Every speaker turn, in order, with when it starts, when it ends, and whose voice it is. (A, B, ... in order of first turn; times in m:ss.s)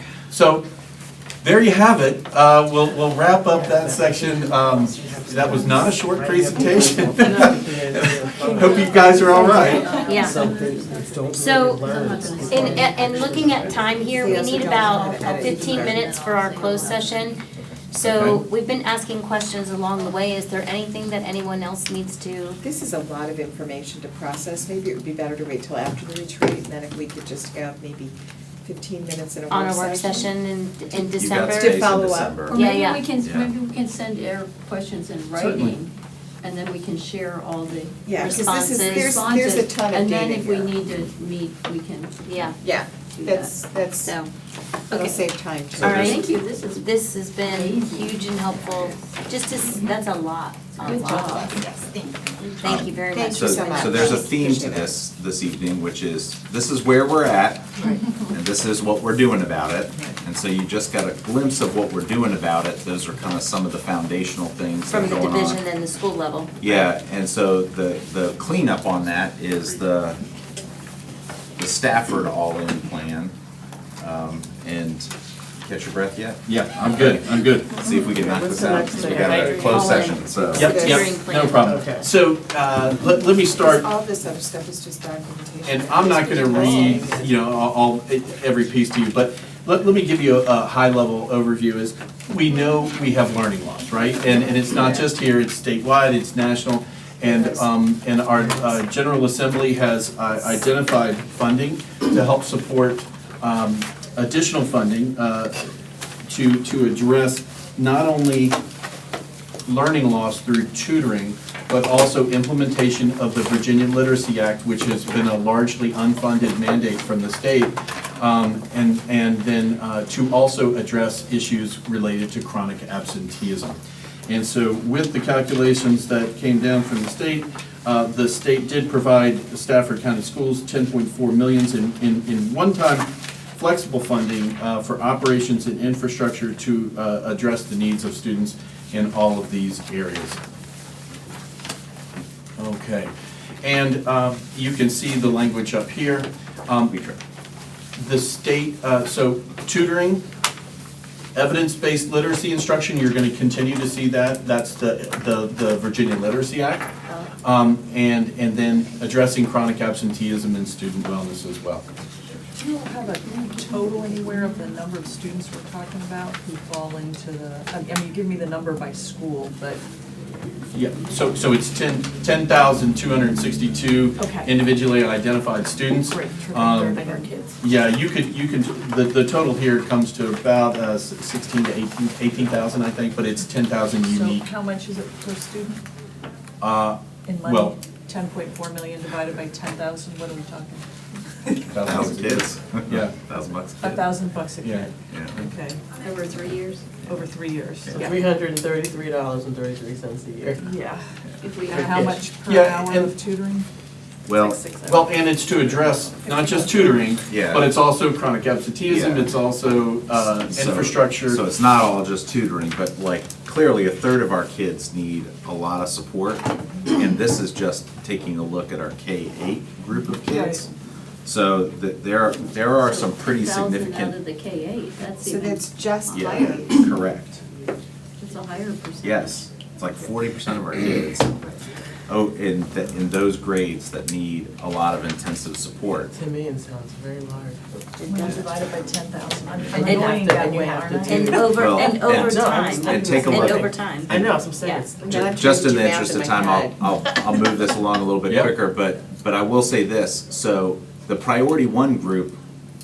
0:00.3-0:00.6 A
0:01.4-0:09.9 A
0:04.0-0:06.0 B
0:05.5-0:13.9 C
0:06.8-0:07.1 B
0:08.4-0:17.3 D
0:09.7-0:10.1 B
0:09.9-0:10.5 E
0:11.2-0:17.4 E
0:14.1-0:16.1 B
0:16.6-0:16.8 B
0:17.9-0:22.6 E
0:18.0-0:18.4 C
0:22.6-0:30.3 B
0:29.5-0:31.8 E
0:31.2-0:32.6 F
0:31.5-0:32.6 B
0:32.5-0:33.0 E
0:32.5-0:42.5 D
0:33.2-0:33.5 F
0:35.3-0:35.8 A
0:38.0-0:40.7 B
0:38.2-0:39.2 E
0:42.2-0:42.6 E
0:42.6-0:44.1 B
0:43.1-0:43.5 D
0:44.0-0:44.3 E
0:44.9-0:46.2 B
0:44.9-0:45.2 E
0:45.8-0:46.2 F
0:45.8-0:51.5 E
0:45.9-0:46.9 D
0:47.4-0:48.6 D
0:50.9-0:51.4 D
0:50.9-0:51.5 B
0:52.4-0:54.3 E
0:52.6-0:57.7 F
0:53.1-0:55.0 B
0:58.3-1:05.6 F
1:04.9-1:06.9 E
1:06.6-1:10.2 F
1:11.6-1:13.3 F
1:14.0-1:15.1 F
1:15.6-1:20.7 F
1:16.4-1:17.8 A
1:17.9-1:19.9 C
1:19.0-1:21.8 E
1:20.5-1:23.9 A
1:20.6-1:21.0 B
1:21.6-1:22.0 C
1:23.4-1:27.3 B
1:25.6-1:45.5 A
1:26.6-1:27.0 C
1:46.3-1:48.6 A
1:49.6-2:03.8 A
2:04.3-2:20.4 A
2:22.6-2:26.9 A
2:26.9-2:27.2 F
2:28.0-2:30.2 A
2:31.3-2:36.9 A
2:37.4-2:41.8 A
2:42.6-2:49.8 G
2:50.7-3:04.5 A
2:54.2-2:54.5 G
2:56.0-2:57.5 G
3:04.0-3:05.8 G
3:06.6-3:07.8 A
3:07.2-3:10.8 G
3:11.7-3:13.1 A
3:11.8-3:14.2 F
3:13.8-3:15.8 G
3:14.6-3:14.9 A
3:15.1-3:15.4 F
3:16.0-3:16.9 D
3:17.1-3:18.2 G
3:17.8-3:18.1 F
3:17.9-3:20.6 C
3:20.5-3:21.1 G
3:21.4-3:22.0 D
3:21.6-3:23.6 G
3:21.7-3:22.3 C
3:22.4-3:23.1 A
3:24.2-3:24.6 F
3:24.3-3:25.1 G
3:24.8-3:31.4 A
3:26.2-3:26.9 G
3:27.3-3:27.7 F
3:28.8-3:29.3 F
3:30.4-3:40.7 F
3:40.3-3:40.6 G
3:41.2-3:44.2 F
3:42.8-3:46.4 D
3:45.2-3:46.8 B
3:46.1-3:47.4 F
3:48.2-3:49.4 D
3:49.0-3:51.3 F
3:52.1-3:56.1 F
3:56.1-3:58.0 C
3:58.0-4:01.4 G
3:58.0-3:58.4 B
3:59.7-4:05.2 C
3:59.7-4:00.2 E
4:01.0-4:04.8 E
4:01.4-4:04.4 F
4:05.0-4:06.8 B
4:05.0-4:12.4 F
4:08.2-4:08.5 A